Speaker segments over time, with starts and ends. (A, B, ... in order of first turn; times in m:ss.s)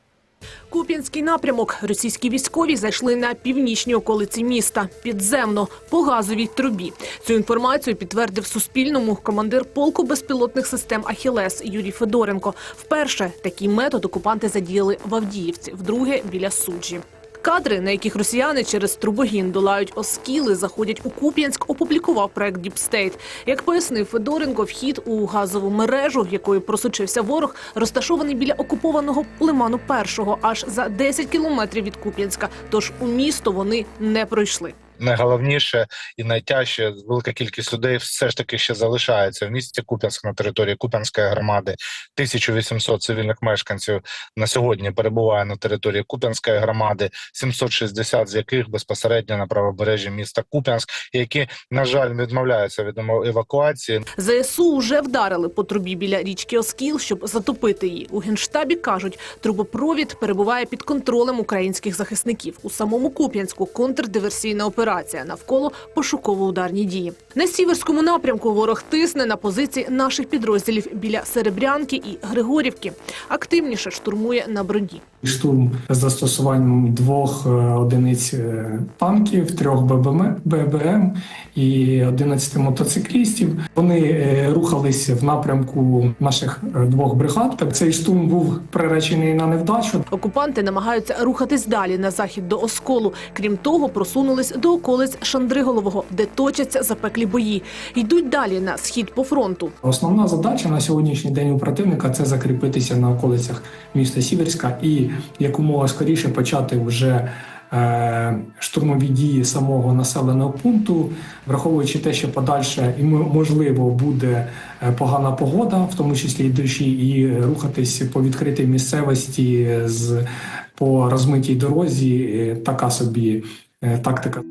0:00.7-0:34.7 A
0:35.0-0:54.0 B
0:54.2-1:15.0 A
1:15.2-1:30.0 C
1:30.1-1:39.7 A
1:39.8-2:00.2 C
2:00.8-2:04.4 C